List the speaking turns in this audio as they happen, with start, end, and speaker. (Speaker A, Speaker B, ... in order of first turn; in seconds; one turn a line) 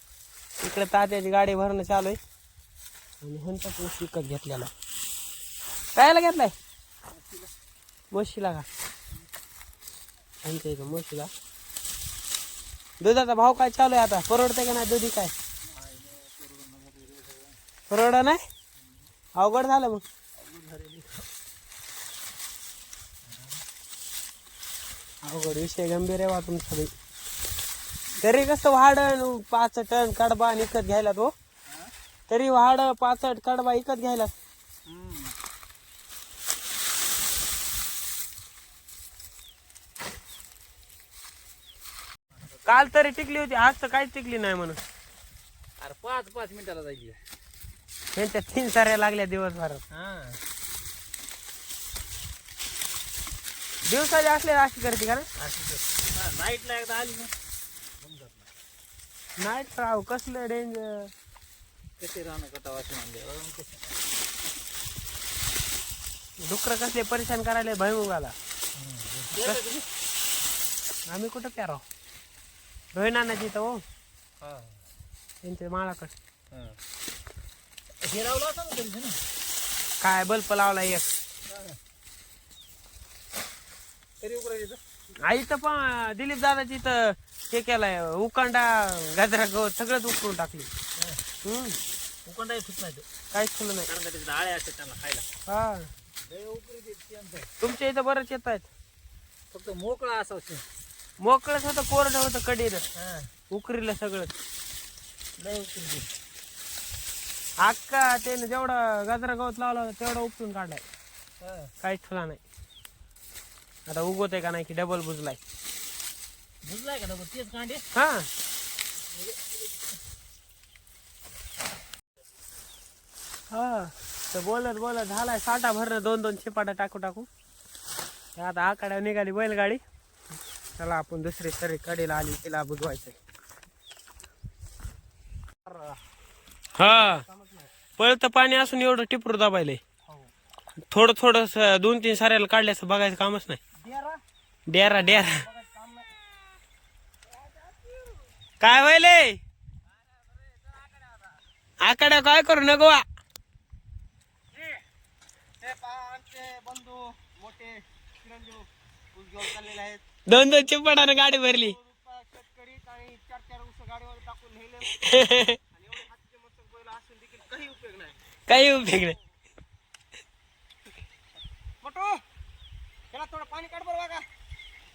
Speaker A: 0.6-2.2
Speaker A: 3.2-4.7
Speaker A: 6.0-6.5
Speaker A: 8.1-8.7
Speaker A: 10.4-11.3
Speaker A: 13.0-15.3
Speaker A: 17.9-18.4
Speaker A: 19.4-20.0
Speaker A: 25.2-26.9
Speaker A: 28.2-31.3
Speaker A: 32.3-34.3
Speaker A: 42.6-44.8
Speaker B: 45.8-47.2
Speaker A: 48.1-49.8
Speaker B: 50.0-50.3
Speaker A: 53.9-55.3
Speaker B: 55.4-57.3
Speaker A: 59.4-61.1
Speaker B: 62.0-63.8
Speaker A: 66.4-68.3
Speaker B: 69.1-69.5
Speaker A: 69.4-69.7
Speaker A: 71.1-71.8
Speaker A: 72.9-73.8
Speaker A: 75.4-76.1
Speaker B: 78.1-79.1
Speaker A: 80.0-81.1
Speaker B: 84.2-84.7
Speaker A: 85.2-90.7
Speaker A: 91.5-91.8
Speaker B: 92.4-93.0
Speaker A: 93.3-93.9
Speaker B: 94.0-95.0
Speaker A: 95.5-95.9
Speaker A: 97.6-98.7
Speaker B: 99.5-100.5
Speaker A: 101.2-102.8
Speaker A: 103.5-104.3
Speaker B: 105.4-105.7
Speaker A: 107.6-110.8
Speaker A: 111.8-112.4
Speaker A: 113.9-115.4
Speaker B: 116.7-117.5
Speaker A: 118.0-118.3
Speaker A: 123.5-127.3
Speaker A: 128.4-129.8
Speaker A: 130.8-133.2
Speaker C: 135.7-136.0
Speaker A: 136.8-137.2
Speaker C: 136.8-137.7
Speaker A: 138.0-139.8
Speaker A: 140.9-143.6
Speaker C: 143.8-144.2
Speaker A: 144.7-145.4
Speaker C: 145.0-146.1
Speaker A: 148.6-149.4
Speaker A: 151.8-153.0
Speaker C: 155.6-160.0
Speaker A: 160.3-161.8
Speaker C: 161.4-165.1
Speaker A: 165.1-165.6
Speaker C: 165.7-168.2
Speaker A: 168.5-169.2
Speaker C: 171.8-172.2
Speaker C: 173.1-174.2